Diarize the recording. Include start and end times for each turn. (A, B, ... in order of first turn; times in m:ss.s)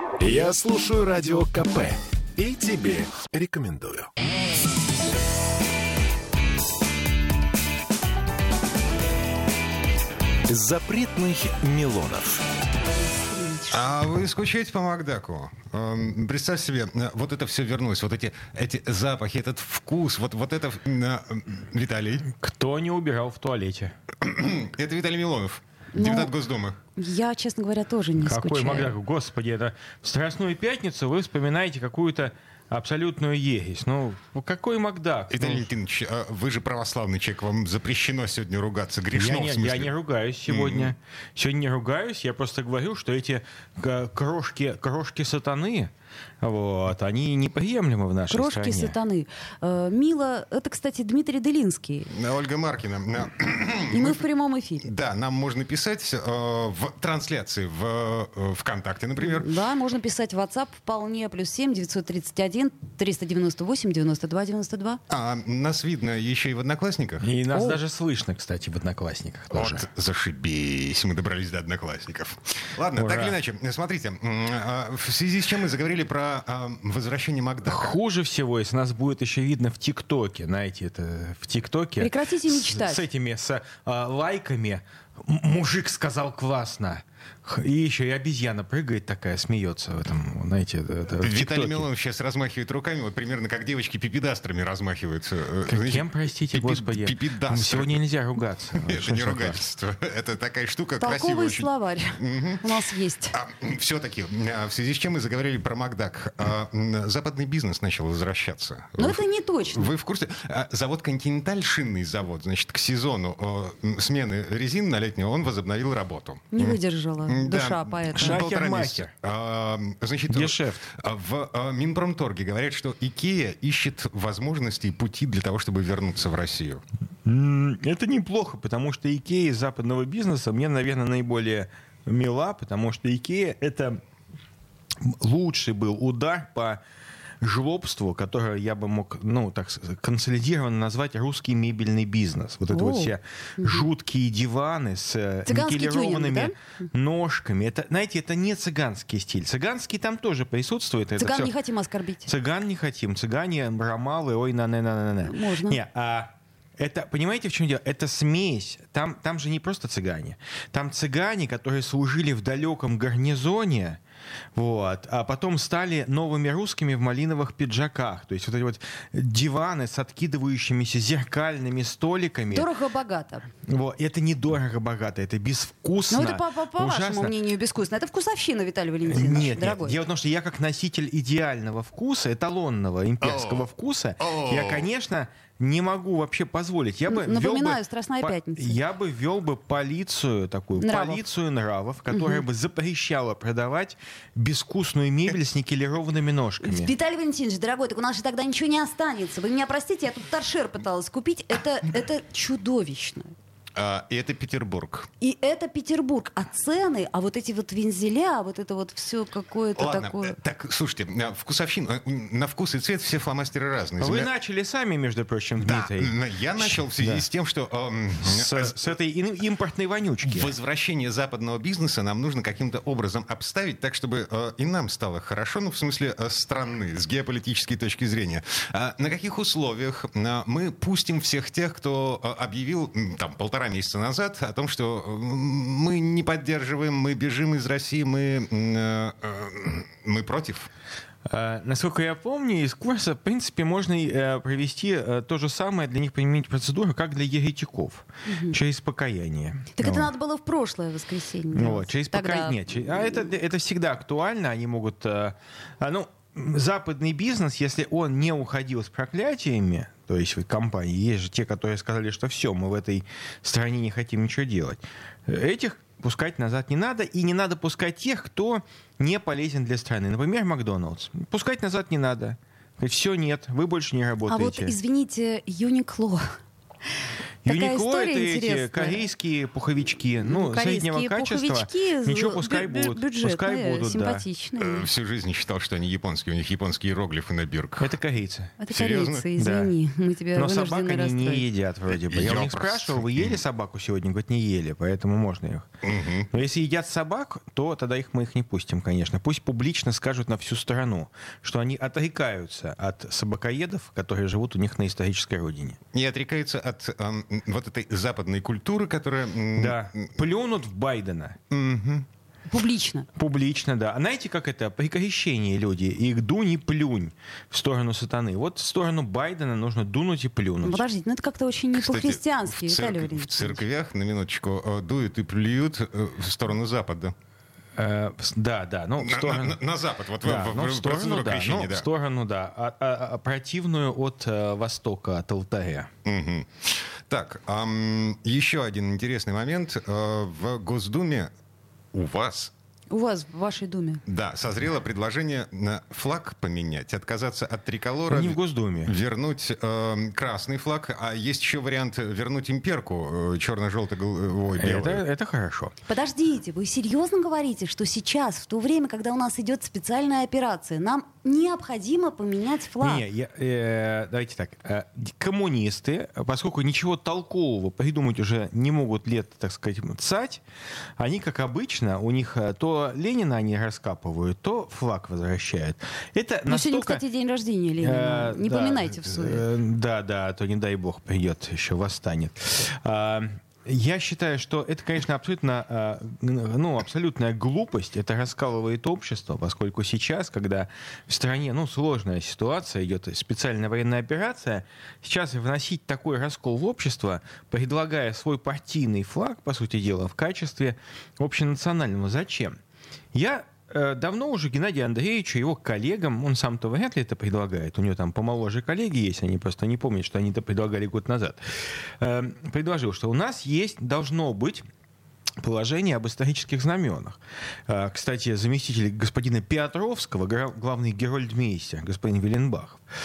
0:00.2-0:04.1 A
0:10.5-0:12.4 A
0:12.9-0:13.9 B
0:13.7-0:22.3 C
0:22.3-0:23.9 D
0:24.2-0:26.8 C
0:25.9-0:26.3 B
0:27.0-0:29.0 B
0:28.2-0:35.7 D
0:35.3-0:39.9 C
0:39.1-0:48.9 D
0:40.4-0:40.9 C
0:48.3-0:52.1 B
0:52.1-0:54.2 C
0:53.9-0:54.9 B
0:54.8-0:59.6 C
0:59.2-1:05.0 B
1:05.1-1:07.3 C
1:07.2-1:09.8 D
1:07.5-1:07.8 B
1:09.5-1:18.0 C
1:13.0-1:13.4 D
1:17.6-1:31.8 D
1:22.0-1:23.0 B
1:31.2-1:38.0 C
1:35.7-1:39.6 D
1:38.7-1:42.6 C
1:41.0-1:43.3 B
1:43.3-2:06.8 C
1:49.0-1:49.9 B
1:56.5-1:58.4 B
1:58.1-1:59.1 D
2:00.3-2:00.8 D
2:07.2-2:14.0 D
2:15.0-2:16.8 D
2:17.4-2:31.5 D
2:22.7-2:23.8 B
2:25.5-2:26.5 B
2:31.2-2:32.3 B
2:32.2-2:44.0 D
2:35.2-2:35.8 B
2:44.5-2:52.7 D
2:52.5-2:53.5 B
2:53.6-2:57.3 D
2:56.1-3:00.0 B
2:59.0-3:16.9 D
3:03.2-3:03.7 C
3:04.2-3:04.9 C
3:07.1-3:08.8 B
3:10.8-3:11.2 B
3:12.1-3:12.4 B
3:16.6-3:23.3 B
3:23.7-3:25.1 C
3:25.2-3:30.3 B
3:29.8-3:34.3 C
3:34.0-3:37.2 D
3:35.6-3:38.9 C
3:38.2-3:40.5 D
3:40.2-4:00.7 C
4:01.3-4:10.0 D
4:08.3-4:08.6 B
4:09.8-4:13.3 B
4:11.5-4:34.7 D
4:34.3-4:36.4 B
4:37.4-4:39.1 B
4:37.4-4:44.2 D
4:40.2-4:44.8 B
4:44.6-4:47.9 C
4:47.8-4:48.6 D
4:48.6-4:51.4 B
4:48.7-4:49.2 C
4:49.4-4:49.7 D
4:50.4-4:55.7 D
4:51.9-4:53.4 C
4:55.8-4:56.3 C
4:56.3-5:05.8 D
5:05.9-5:10.2 C
5:09.6-5:11.4 D
5:11.5-5:12.1 C
5:12.5-5:13.1 B
5:13.1-5:20.8 D
5:20.6-5:23.6 B
5:21.7-5:27.1 C
5:27.8-5:29.6 D
5:29.0-5:31.9 C
5:30.2-5:35.9 D
5:36.0-5:41.3 C
5:41.9-5:42.5 C
5:42.9-5:44.0 B
5:44.1-5:55.0 C
5:48.1-5:48.9 D
5:54.5-5:55.7 D
5:55.9-6:03.0 B
6:02.8-6:10.4 D
6:11.0-6:17.0 D
6:16.5-6:19.4 B
6:17.8-6:42.6 D
6:43.1-6:51.4 D
6:52.0-6:54.6 D
6:55.4-7:02.8 D